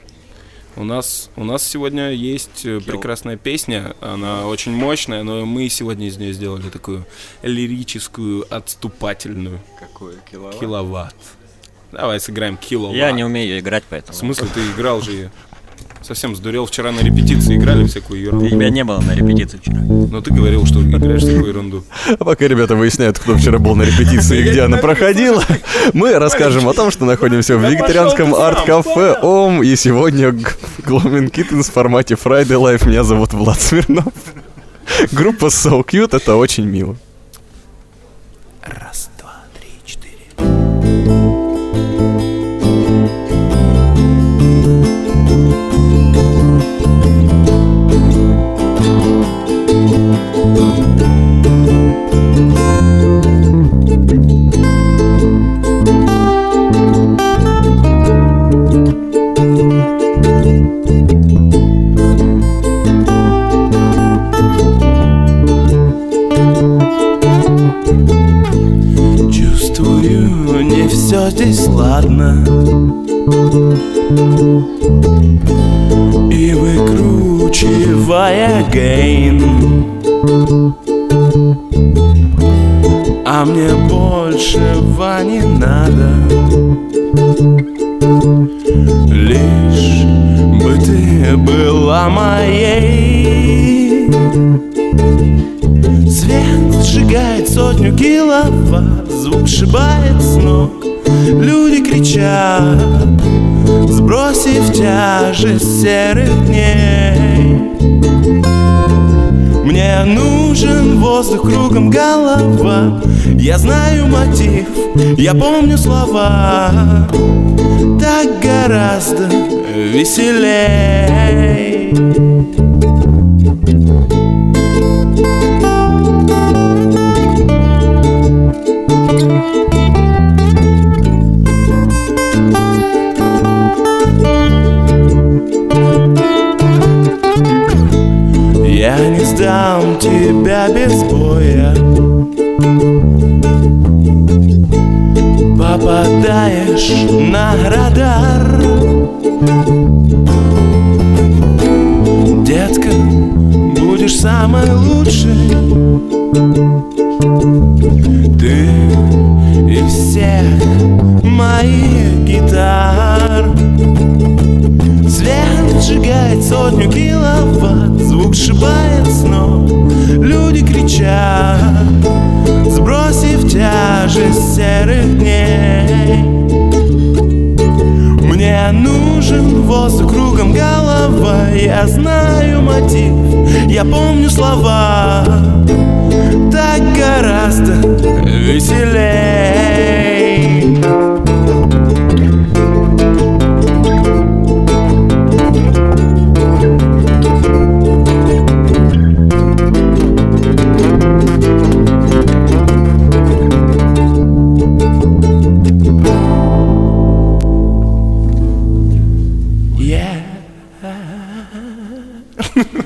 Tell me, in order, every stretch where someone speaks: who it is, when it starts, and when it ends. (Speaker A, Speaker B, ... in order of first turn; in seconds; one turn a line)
Speaker A: 0.8-9.6
Speaker B: 2.8-3.1
Speaker B: 9.8-10.7
Speaker A: 10.6-11.3
Speaker A: 11.9-13.2
Speaker B: 12.9-14.5
Speaker A: 14.2-15.3
Speaker A: 16.0-18.7
Speaker B: 18.4-19.9
Speaker A: 20.1-21.8
Speaker C: 21.9-34.3
Speaker D: 24.3-25.2
Speaker D: 26.3-26.6
Speaker D: 27.5-29.2
Speaker C: 34.9-37.0
Speaker D: 38.6-40.1
Speaker D: 69.3-72.7
Speaker D: 76.3-79.9
Speaker D: 83.2-86.6
Speaker D: 89.1-94.2
Speaker D: 96.1-103.2
Speaker D: 103.8-107.7
Speaker D: 109.6-117.1
Speaker D: 117.9-122.2
Speaker D: 138.6-141.9
Speaker D: 145.5-149.0
Speaker D: 152.3-155.7
Speaker D: 158.3-163.6
Speaker D: 165.1-172.0
Speaker D: 172.6-176.4
Speaker D: 178.2-185.7
Speaker D: 186.4-190.8
Speaker D: 209.8-212.0